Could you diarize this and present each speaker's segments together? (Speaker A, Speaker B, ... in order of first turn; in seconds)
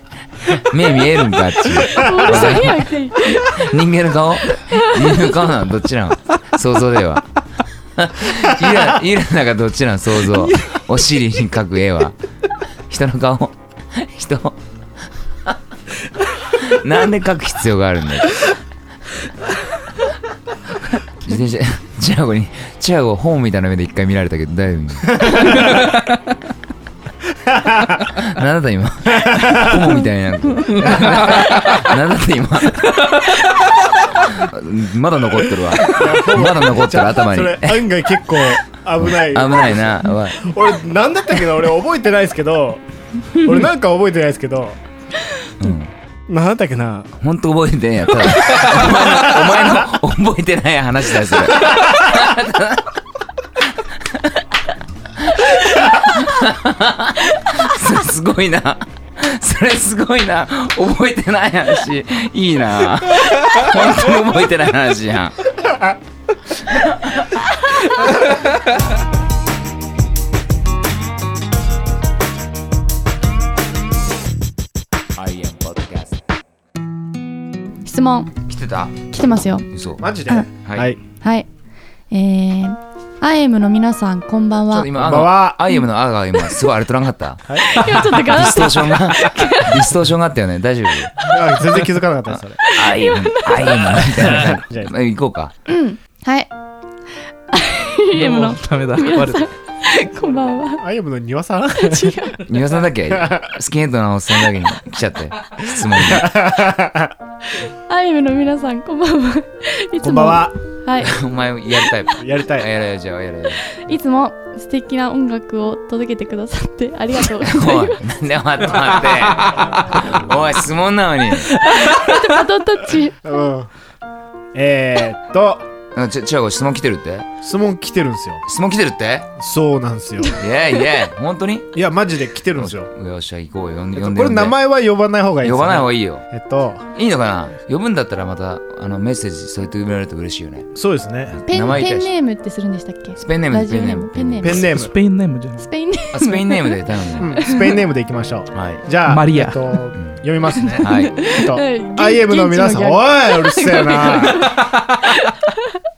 Speaker A: 0.3-7.3, 7.9-12.2, 12.9-14.6, 16.4-18.5, 20.9-25.6, 28.1-33.1, 34.3-37.9, 39.0-40.5, 45.6-45.9, 47.2-52.9, 53.6-54.4, 55.2-65.5, 66.5-67.5, 75.1-76.2, 78.5-79.0, 79.7-80.1, 80.6-80.9, 84.7-91.3, 92.7-95.5, 102.4-106.3, 111.0-113.6, 117.4-121.5, 125.9-127.3, 128.4-129.3, 130.3-131.8, 132.5-134.6, 135.4-136.2, 136.9-140.7, 141.3-142.1, 143.2-144.7, 146.1-147.4, 148.5-148.8, 150.8-151.2
Speaker B: 1.9-3.7, 4.7-5.5, 77.8-78.3, 79.1-79.7, 81.1-81.5, 82.1-84.9, 87.6-89.8, 92.6-94.5, 95.7-96.5, 97.5-100.8, 101.8-102.5, 107.6-111.2, 113.7-118.1, 121.5-123.4, 141.5-144.7, 145.6-146.8, 147.4-147.8, 150.6-155.7
Speaker C: 2.3-2.6, 27.5-27.9, 29.2-29.9, 30.8-31.5, 35.9-44.8, 46.3-47.1, 80.0-81.0, 84.9-85.6, 87.5-87.8, 91.2-92.6, 94.1-94.9, 100.8-102.3, 103.1-103.5, 105.9-107.1, 110.0-110.5, 112.2-112.7, 123.2-123.7, 124.5-125.7, 127.4-128.4, 129.4-130.4, 131.7-132.9, 133.9-136.9, 140.7-141.4, 144.4-144.9, 147.2-154.6
Speaker D: 31.0-31.7, 98.1-99.5, 144.6-145.7, 149.1-149.8